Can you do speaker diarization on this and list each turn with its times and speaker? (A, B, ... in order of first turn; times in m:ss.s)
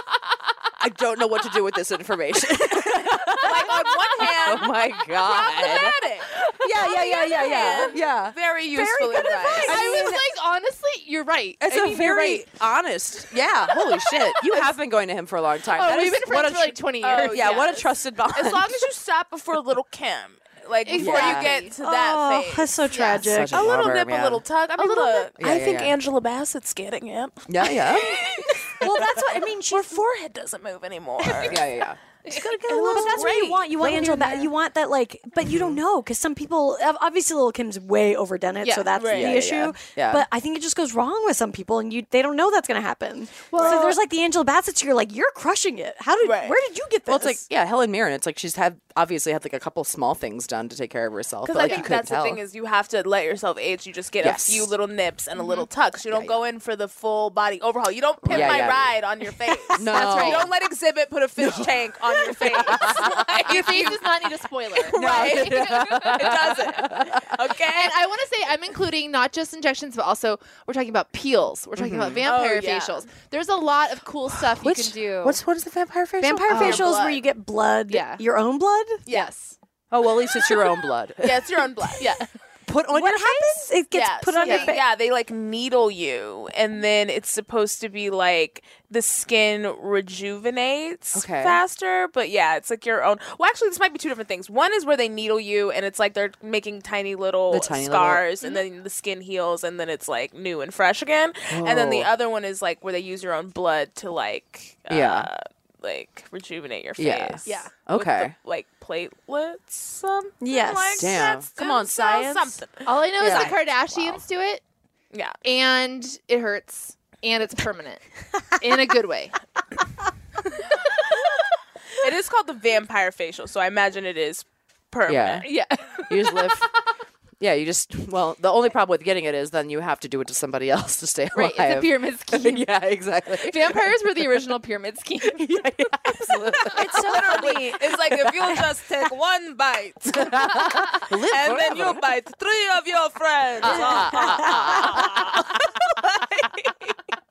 0:00.8-0:03.8 A
0:03.4-0:09.8 B
0:04.4-0:06.0 A
0:06.5-0:08.4 A
0:08.8-0:12.5 C
0:09.6-0:10.2 A
0:11.6-0:18.8 A
0:13.7-0:14.6 C
0:15.7-0:17.8 C
0:17.0-0:31.6 B
0:20.8-0:21.7 C
0:21.0-0:21.5 A
0:21.8-0:23.8 D
0:23.2-0:24.4 A
0:24.8-0:25.2 C
0:25.4-0:25.9 A
0:27.5-0:28.3 A
0:28.8-0:30.0 D
0:31.2-0:34.5 A
0:32.3-0:33.8 B
0:32.9-0:47.4 D
0:35.5-0:35.8 A
0:38.6-0:38.9 C
0:38.9-0:39.4 B
0:39.1-0:40.3 A
0:43.5-0:44.0 C
0:43.6-0:43.9 B
0:46.2-0:46.6 B
0:47.1-0:52.4 A
0:51.4-1:04.1 B
0:54.2-0:54.7 A
0:55.4-0:55.7 C
0:58.3-0:58.9 A
0:58.3-0:58.7 C
0:59.6-1:00.5 C
0:59.8-1:00.5 A
1:01.4-1:01.7 A
1:02.5-1:03.6 A
1:02.7-1:06.5 C
1:04.7-1:08.0 B
1:05.0-1:07.4 A
1:07.7-1:15.4 C
1:11.8-1:12.3 A
1:12.2-1:13.0 B
1:14.4-1:16.9 A
1:16.2-1:19.0 D
1:16.5-1:17.2 B
1:17.9-1:18.2 C
1:19.1-1:19.6 C
1:19.9-1:21.9 A
1:21.2-1:22.2 B
1:22.0-1:22.2 C
1:22.7-1:23.7 A
1:22.9-1:24.8 D
1:23.9-1:53.6 B
1:24.4-1:24.7 C
1:31.1-1:31.6 A
1:37.5-1:38.2 A
1:41.5-1:42.1 A
1:44.9-1:45.3 A
1:47.0-1:48.4 A
1:50.4-1:51.2 D
1:51.0-1:52.6 A
1:52.8-1:54.6 C
1:53.2-1:54.2 A
1:55.1-1:55.4 B
1:55.4-1:58.0 C
1:58.6-1:59.4 C
2:00.9-2:01.1 C
2:02.0-2:05.5 B
2:05.1-2:05.5 A
2:05.4-2:06.6 C
2:06.0-2:06.7 A
2:07.4-2:14.0 A
2:11.3-2:12.7 C
2:13.4-2:15.6 C
2:15.3-2:17.6 A
2:16.1-2:16.7 C
2:16.7-2:18.6 D
2:16.8-2:27.0 B
2:20.2-2:22.0 A
2:23.6-2:25.3 A
2:23.7-2:24.7 D